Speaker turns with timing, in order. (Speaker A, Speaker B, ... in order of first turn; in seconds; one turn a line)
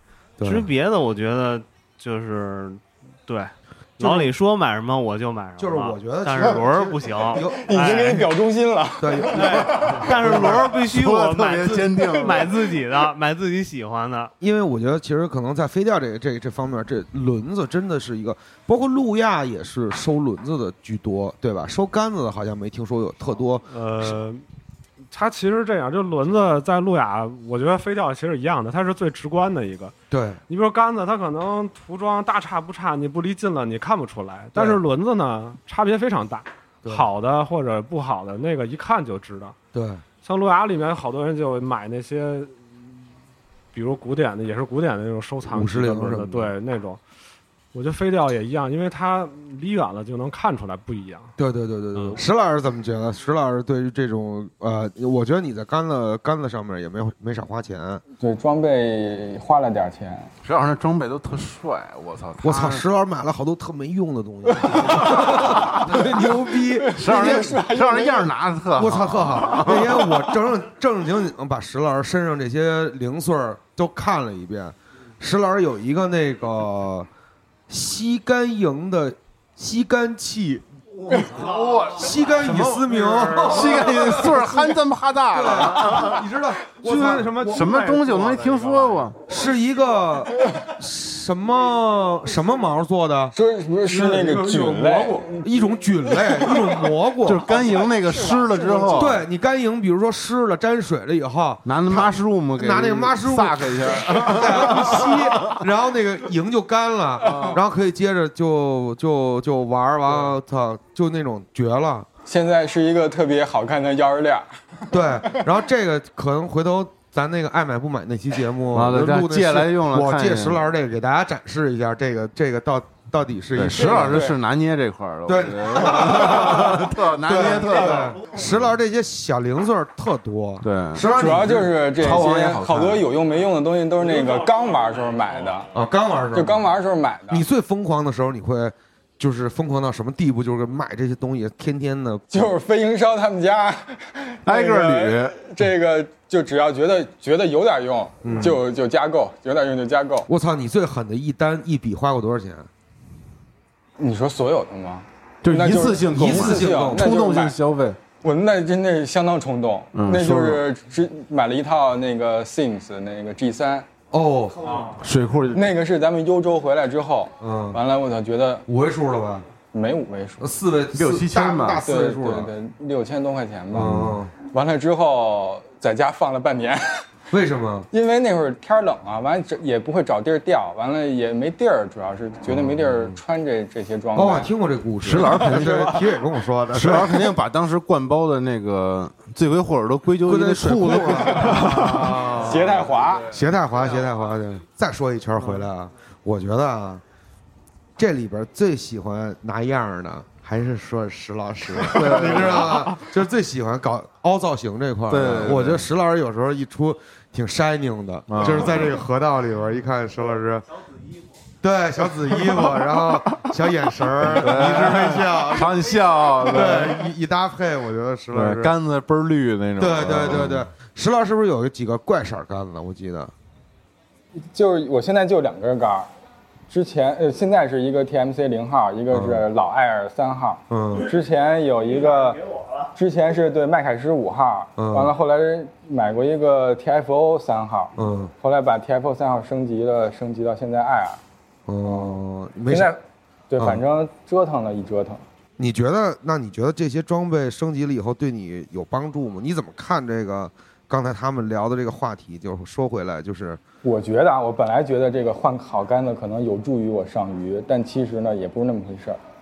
Speaker A: 0.4-0.7
Speaker B: 0.4-8.3
Speaker A: 4.0-4.3
Speaker A: 5.6-8.1
Speaker C: 7.5-9.7
Speaker A: 9.0-10.7
Speaker B: 9.3-14.3
Speaker D: 10.1-12.5
Speaker A: 14.4-24.2
Speaker E: 23.7-24.4
Speaker E: 25.1-29.9
Speaker A: 30.1-30.4
Speaker E: 30.5-39.6
Speaker A: 34.5-34.8
Speaker A: 39.7-40.0
Speaker E: 40.2-42.6
Speaker E: 43.7-47.0
Speaker A: 45.5-46.5
Speaker E: 47.7-51.3
Speaker A: 51.4-58.0
Speaker E: 52.0-52.2
Speaker C: 58.2-60.3
Speaker D: 60.4-62.9
Speaker A: 62.4-67.5
Speaker C: 64.8-68.3
Speaker D: 65.0-66.0
Speaker D: 66.9-70.2
Speaker A: 68.8-77.1
Speaker A: 77.7-81.2
Speaker D: 81.1-86.3
Speaker A: 81.9-84.7
Speaker A: 85.3-87.7
Speaker D: 86.8-89.2
Speaker E: 87.0-89.1
Speaker A: 89.3-93.3
Speaker C: 93.3-96.6
Speaker A: 93.9-97.5
Speaker D: 97.2-99.2
Speaker C: 98.3-99.0
Speaker A: 98.9-112.1
Speaker D: 101.7-105.5
Speaker D: 107.2-107.6
Speaker C: 112.3-114.5
Speaker A: 114.9-124.3
Speaker D: 118.7-120.7
Speaker D: 123.5-128.8
Speaker C: 123.8-124.4
Speaker A: 125.3-131.7
Speaker D: 130.6-133.0
Speaker C: 131.1-135.7
Speaker A: 135.7-136.7
Speaker C: 136.3-137.5
Speaker A: 137.3-142.5
Speaker C: 142.3-150.3
Speaker D: 144.4-145.4
Speaker A: 148.2-148.6
Speaker A: 150.3-152.7
Speaker C: 154.0-157.6
Speaker D: 155.4-158.0
Speaker A: 156.1-157.2
Speaker C: 158.2-163.9
Speaker D: 159.9-160.6
Speaker A: 164.1-164.8
Speaker C: 164.7-164.9
Speaker D: 164.9-165.7
Speaker C: 165.5-168.7
Speaker A: 167.4-167.8
Speaker A: 168.7-169.5
Speaker C: 169.7-170.5
Speaker A: 170.4-172.5
Speaker D: 170.9-171.8
Speaker C: 171.8-177.1
Speaker A: 173.7-174.3
Speaker D: 173.8-174.2
Speaker A: 177.3-177.9
Speaker C: 177.9-184.5
Speaker A: 182.5-183.2
Speaker A: 184.2-187.2
Speaker D: 185.0-186.0
Speaker C: 185.4-186.1
Speaker D: 186.7-192.2
Speaker A: 190.3-192.8
Speaker C: 192.3-193.3
Speaker A: 193.3-197.0
Speaker A: 198.0-210.7
Speaker D: 201.7-203.0
Speaker D: 205.1-205.9
Speaker D: 208.3-209.0
Speaker A: 211.6-218.7
Speaker D: 214.2-217.1
Speaker D: 218.3-220.7
Speaker A: 219.8-223.3
Speaker C: 224.5-226.1
Speaker C: 226.7-232.4
Speaker A: 229.1-229.4
Speaker A: 230.7-231.1
Speaker C: 232.9-241.2
Speaker A: 234.8-235.1
Speaker A: 238.0-238.3
Speaker A: 241.7-242.9
Speaker C: 241.8-242.2
Speaker C: 242.7-245.2
Speaker A: 245.6-253.6
Speaker C: 253.8-259.2